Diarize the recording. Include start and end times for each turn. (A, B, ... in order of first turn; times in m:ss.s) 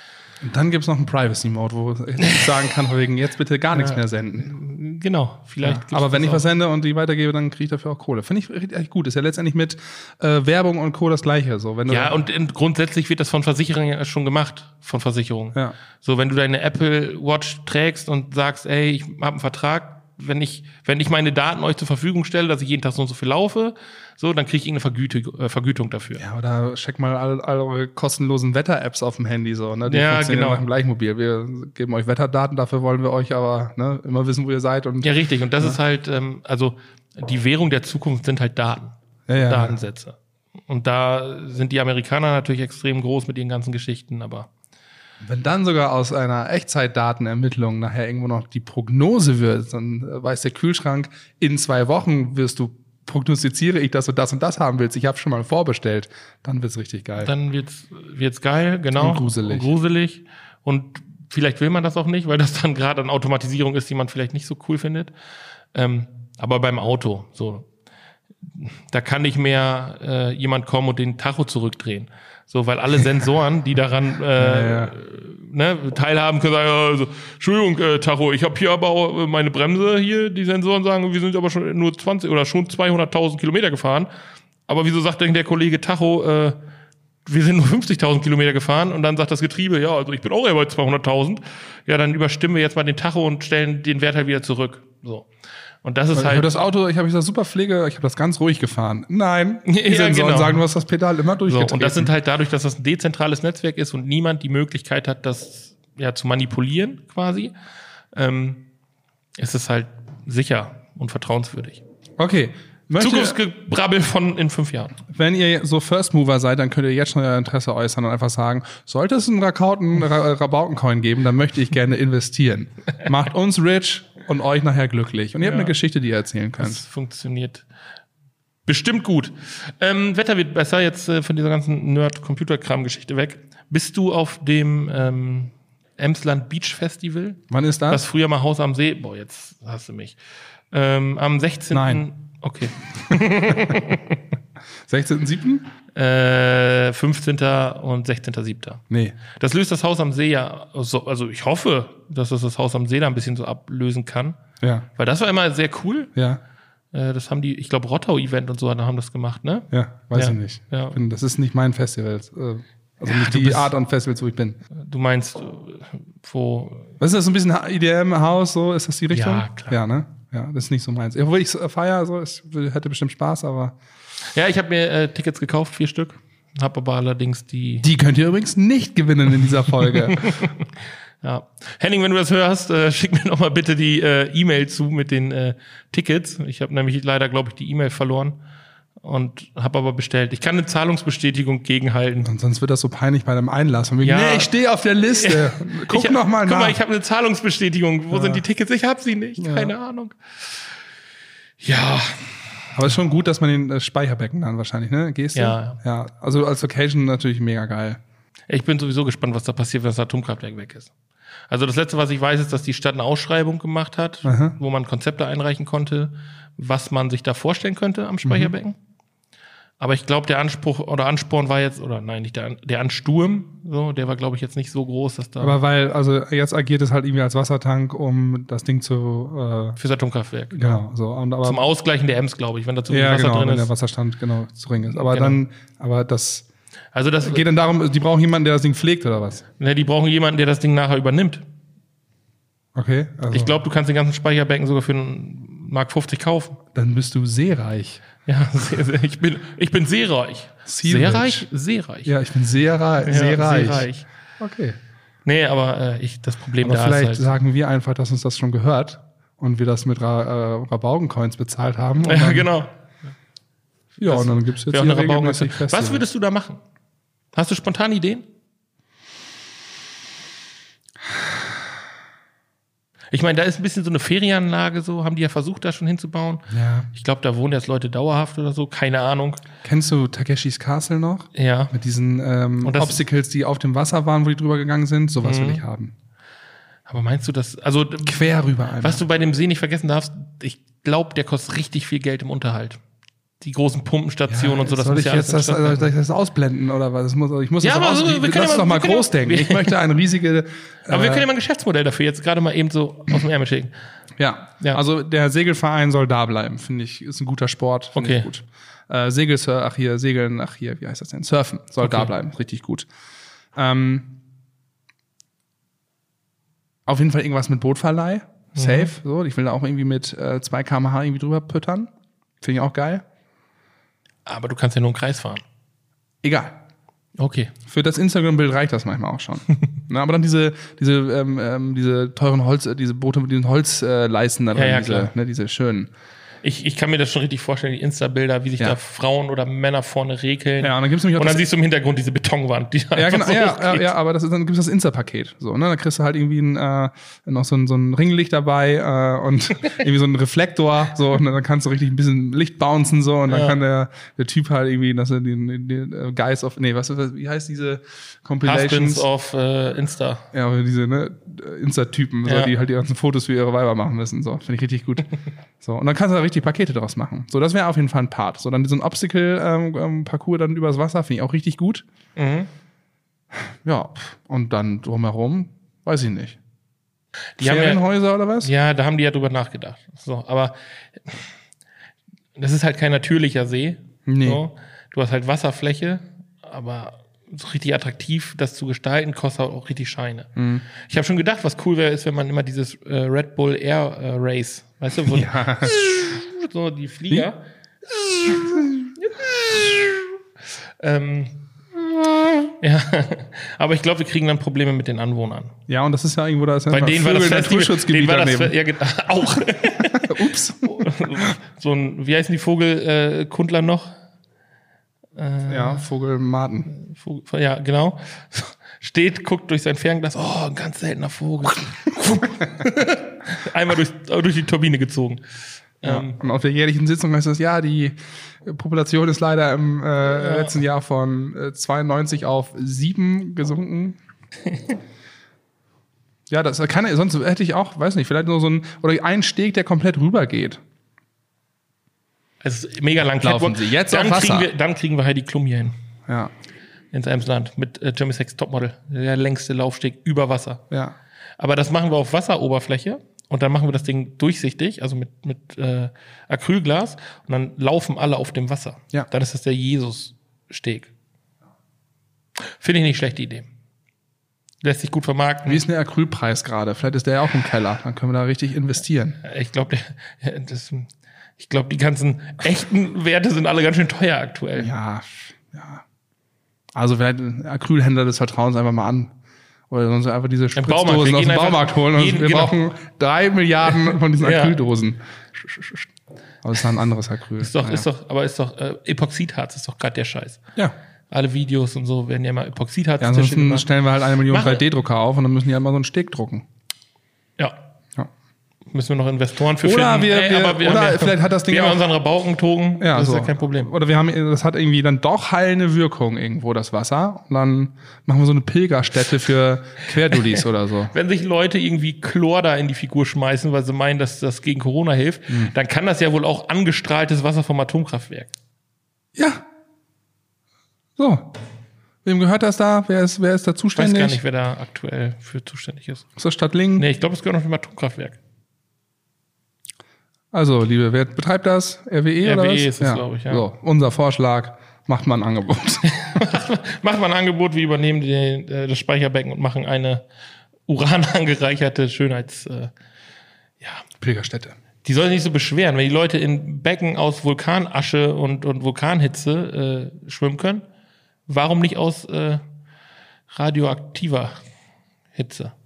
0:00.4-0:04.5 A
0:03.7-0:06.4 B
0:05.6-0:12.1 A
0:11.9-0:26.2 B
0:26.2-0:35.8 A
0:29.9-0:30.6 B
0:35.0-0:40.2 B
0:39.3-0:39.8 A
0:40.7-0:44.5 B
0:45.2-0:57.3 A
0:57.2-1:05.1 B
0:59.0-0:59.7 A
1:05.7-1:07.7 B
1:08.6-1:24.1 B
1:14.4-1:14.9 A
1:24.7-1:26.6 B
1:27.3-1:35.3 B
1:35.8-1:36.5 B
1:36.1-1:42.1 A
1:39.7-1:40.6 B
1:41.5-1:47.5 B
1:48.1-1:48.7 B
1:49.4-1:51.8 B
1:52.2-1:53.4 A
1:53.0-1:55.0 B
1:55.1-2:06.8 A
2:05.4-2:05.8 B
2:06.6-2:07.6 B
2:08.7-2:20.2 B
2:17.5-2:18.0 A
2:20.7-2:24.2 B
2:21.7-2:22.0 A
2:23.1-2:23.8 A
2:24.9-2:25.7 A
2:26.0-2:34.4 B
2:28.9-2:29.2 A
2:34.6-2:34.9 A
2:35.0-2:36.1 B
2:36.9-2:41.0 B
2:39.7-2:44.6 A
2:43.1-2:43.7 B
2:44.8-2:46.9 B
2:47.0-2:53.8 A
2:49.1-2:49.8 B
2:54.3-2:57.9 B
2:57.8-3:00.4 A
2:59.8-3:00.6 B
3:01.2-3:08.4 B
3:09.0-3:12.3 B
3:12.2-3:16.8 A
3:14.0-3:14.5 B
3:15.2-3:20.6 B
3:18.1-3:18.4 A
3:19.4-3:19.7 A
3:21.6-3:22.4 B
3:22.8-3:28.0 A
3:25.4-3:25.8 B
3:28.5-3:30.9 B
3:31.5-3:38.8 B
3:34.2-3:34.6 A
3:38.2-3:38.5 A
3:39.8-3:45.6 B
3:45.4-3:49.8 A
3:49.8-3:50.8 B
3:50.5-3:51.6 A
3:51.4-3:53.7 B
3:52.9-3:56.5 A
3:54.9-3:55.4 B
3:56.9-3:57.4 B
3:57.2-3:59.4 A
3:59.6-4:01.4 B
4:02.8-4:03.6 A
4:03.3-4:06.6 B
4:06.7-4:08.0 A
4:08.3-4:12.1 B
4:10.7-4:11.5 A
4:12.1-4:13.9 A
4:13.0-4:14.1 B
4:14.4-4:14.8 A
4:15.2-4:17.3 B
4:16.6-4:22.5 A
4:22.0-4:22.7 B
4:24.0-4:26.0 A
4:24.0-4:26.6 B
4:27.3-4:28.3 B
4:33.1-4:39.4 B
4:36.5-4:36.9 A
4:39.6-4:45.9 A
4:41.4-4:41.7 B
4:42.6-4:43.0 B
4:45.2-4:45.6 B
4:46.9-4:52.8 B
4:48.0-4:49.0 A
4:53.4-4:55.9 B
4:54.3-5:01.2 A
4:57.6-4:59.8 B
5:00.9-5:03.7 B
5:04.2-5:12.9 A
5:08.0-5:08.3 B
5:11.8-5:12.1 B
5:13.6-5:14.2 A
5:16.9-5:21.9 A
5:18.6-5:18.9 B
5:22.4-5:23.0 A
5:24.3-5:25.4 B
5:26.2-5:26.6 A
5:27.2-5:27.5 B
5:27.7-5:35.9 A
5:34.6-5:35.1 B
5:36.4-5:43.9 B
5:40.6-5:41.4 A
5:43.0-5:59.1 A
5:53.3-5:53.6 B
5:58.4-6:00.2 B
6:00.3-6:11.8 A
6:02.3-6:02.5 B
6:12.2-6:12.5 B
6:13.5-6:16.4 A
6:17.4-6:17.8 B
6:17.4-6:18.5 A
6:18.4-6:21.3 B
6:22.4-6:37.4 B
6:24.1-6:24.4 A
6:30.4-6:30.6 A
6:35.1-6:35.8 A
6:38.2-6:38.9 A
6:39.1-6:40.1 B
6:40.8-6:41.4 B
6:42.2-6:45.5 B
6:45.7-6:48.5 A
6:46.7-6:53.9 B
6:49.8-6:51.3 A
6:55.2-6:55.8 B
6:55.5-6:56.7 A
6:56.8-7:05.2 B
7:05.8-7:06.2 B
7:05.8-7:14.0 A
7:10.1-7:10.6 B
7:14.5-7:14.7 B
7:16.3-7:20.6 A
7:22.4-7:25.8 B
7:23.2-7:24.5 A
7:26.9-7:30.6 B
7:31.4-7:40.9 B
7:42.6-7:43.5 B
7:44.6-7:45.6 B
7:45.5-7:49.2 A
7:49.2-7:54.7 B
7:54.6-7:55.8 A
7:56.8-7:59.1 A
7:59.7-8:05.9 A
8:00.6-8:02.6 B
8:03.9-8:04.6 B
8:06.4-8:07.9 A
8:07.4-8:10.4 B
8:11.1-8:13.7 B
8:13.0-8:16.4 A
8:14.3-8:14.6 B
8:18.7-8:23.7 B
8:19.6-8:21.8 A
8:22.8-8:30.9 A
8:30.1-8:30.4 B
8:30.9-8:38.3 B
8:39.2-8:39.4 A
8:41.0-8:41.3 A
8:42.0-8:44.2 A
8:43.8-8:46.1 B
8:46.2-8:46.9 A
8:46.8-8:48.2 B
8:50.3-8:56.0 A
8:52.2-8:53.5 B
8:55.9-9:00.0 B
9:00.7-9:02.7 B
9:04.0-9:04.6 A
9:04.8-9:10.6 B
9:11.3-9:12.4 B
9:13.3-9:14.4 B
9:15.1-9:15.5 B